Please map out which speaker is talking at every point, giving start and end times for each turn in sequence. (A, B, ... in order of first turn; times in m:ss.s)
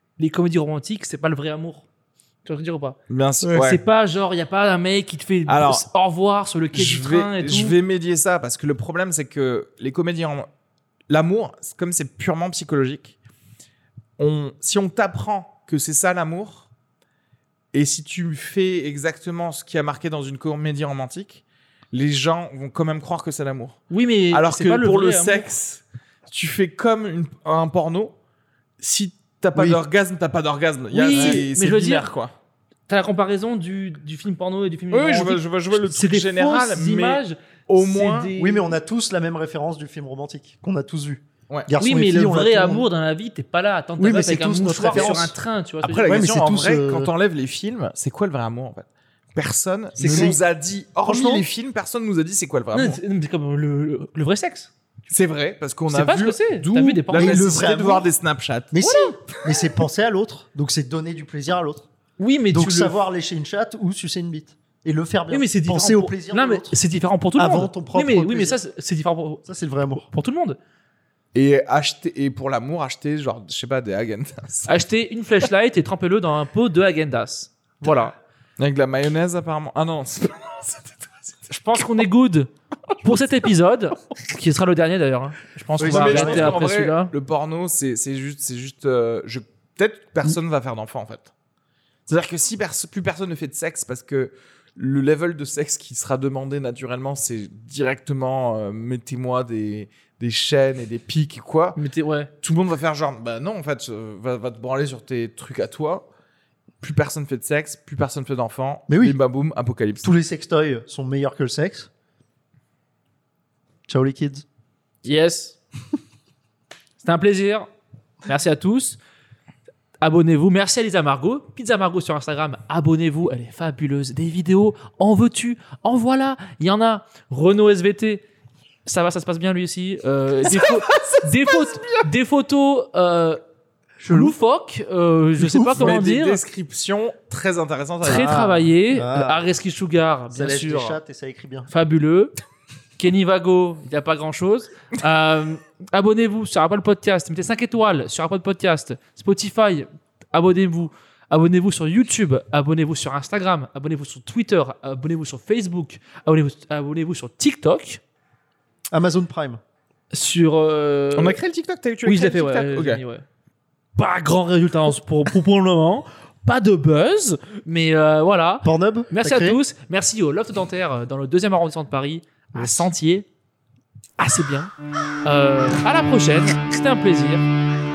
0:00.2-0:01.9 A
0:02.4-0:03.0 A
0:03.1-0:03.8 B
0:03.5-0:07.8 A
0:05.5-0:05.8 B
0:06.7-0:10.5 B
0:11.1-0:13.2 B
0:14.2-0:16.7 B
0:17.7-0:28.2 B
0:23.9-0:25.5 A
0:28.8-0:32.3 B
0:30.9-0:32.1 A
0:31.1-0:31.5 C
0:32.9-0:38.8 A
0:34.9-0:38.3 B
0:38.3-0:42.9 C
0:41.8-0:46.3 A
0:44.0-0:45.4 C
0:44.9-0:45.2 B
0:45.8-0:53.0 B
0:46.0-0:47.1 C
0:50.0-0:50.4 C
0:51.0-0:51.5 C
0:52.7-0:54.7 A
0:55.1-0:58.8 B
0:55.9-0:57.5 A
0:57.1-0:58.1 C
0:58.7-1:01.9 C
0:58.8-0:59.2 A
1:02.2-1:03.0 A
1:02.5-1:06.8 C
1:05.3-1:09.4 A
1:07.4-1:08.6 C
1:09.4-1:10.1 C
1:10.1-1:10.6 A
1:11.3-1:14.7 B
1:14.7-1:18.2 A
1:18.6-1:21.9 B
1:21.5-1:27.1 A
1:25.8-1:31.3 B
1:25.8-1:26.6 C
1:32.1-1:41.8 B
1:41.8-1:42.3 A
1:42.4-1:46.1 B
1:46.8-1:50.1 B
1:48.9-1:49.2 C
1:50.0-1:51.9 C
1:53.9-1:54.4 C
1:55.0-1:55.6 A
1:57.0-1:57.7 A
1:58.2-1:59.0 A
2:00.0-2:08.2 A
2:08.9-2:13.4 A
2:10.5-2:12.1 B
2:14.0-2:14.4 C
2:14.1-2:16.4 A
2:15.4-2:16.0 C
2:15.8-2:18.4 B
2:18.0-2:21.0 A
2:18.1-2:19.4 C
2:20.3-2:21.7 C
2:21.7-2:22.3 A
2:23.0-2:38.0 A
2:38.9-2:39.6 C
2:40.1-2:41.4 A
2:41.2-2:43.0 B
2:42.0-2:43.2 A
2:44.0-2:53.3 A
2:48.6-2:49.6 C
2:54.2-2:54.7 A
2:55.2-2:57.4 A